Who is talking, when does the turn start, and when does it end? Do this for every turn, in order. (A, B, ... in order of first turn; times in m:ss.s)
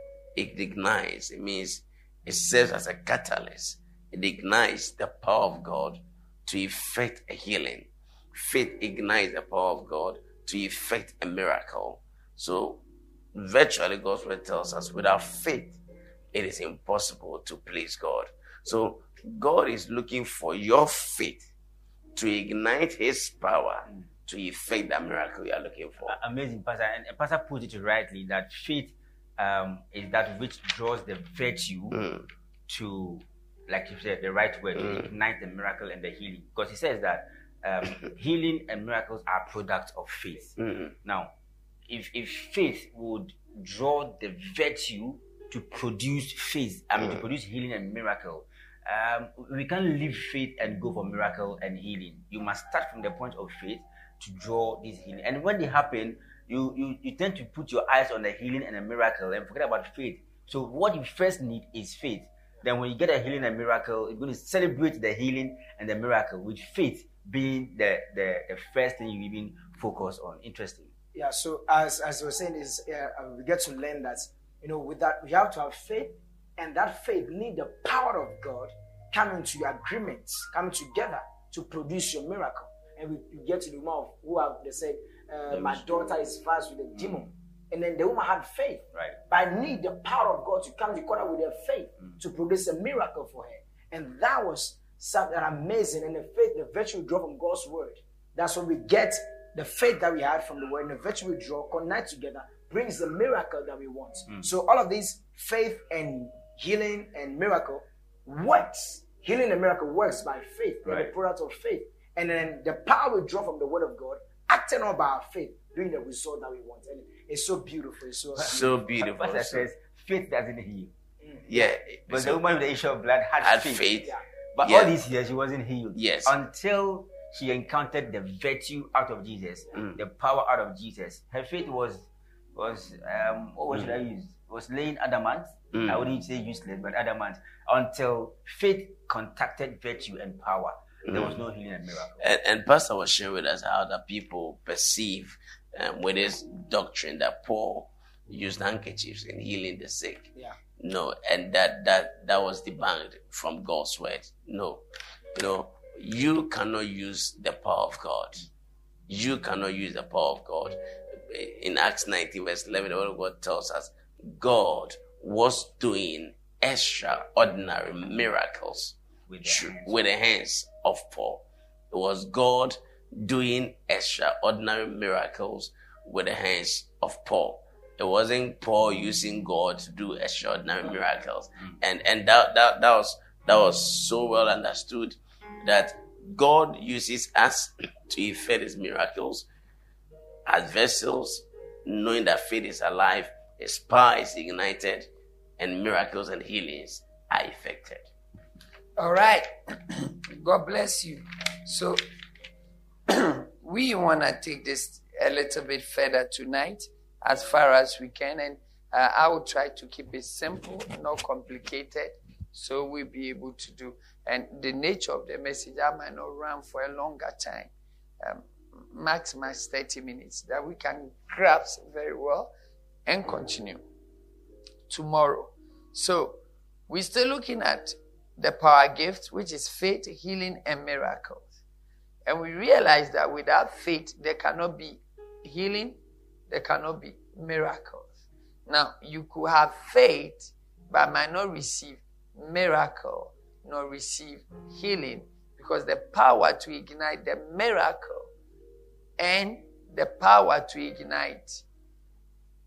0:00.4-0:12.8 A
0:13.3-0:15.8 A
0:16.3-0:21.4 A
0:22.1-0:26.1 A
0:26.0-0:32.0 B
0:31.9-0:32.2 A
0:32.7-0:41.3 B
0:34.8-0:35.0 A
0:40.6-0:40.9 A
0:41.9-1:10.9 B
1:11.1-1:58.6 C
1:25.5-1:25.8 B
1:50.8-1:51.1 B
1:58.3-2:00.9 B
1:58.4-1:59.7 A
2:01.5-2:02.5 A
2:02.1-2:22.2 B
2:03.4-2:04.9 A
2:05.9-2:06.4 A
2:15.7-2:16.0 A
2:21.1-2:21.4 A
2:22.2-2:34.8 A
2:35.3-2:38.5 A
2:39.1-2:40.8 A
2:41.3-3:09.5 A
2:49.3-2:50.0 B
3:10.4-3:15.1 A
3:15.6-3:18.0 A
3:19.0-3:22.0 D
3:23.1-3:42.5 D
3:43.0-3:43.8 D
3:44.9-3:46.4 D
3:46.9-3:51.5 D
3:52.2-3:56.0 D
3:56.5-3:58.1 D
3:58.7-4:08.3 D
4:09.2-4:11.6 D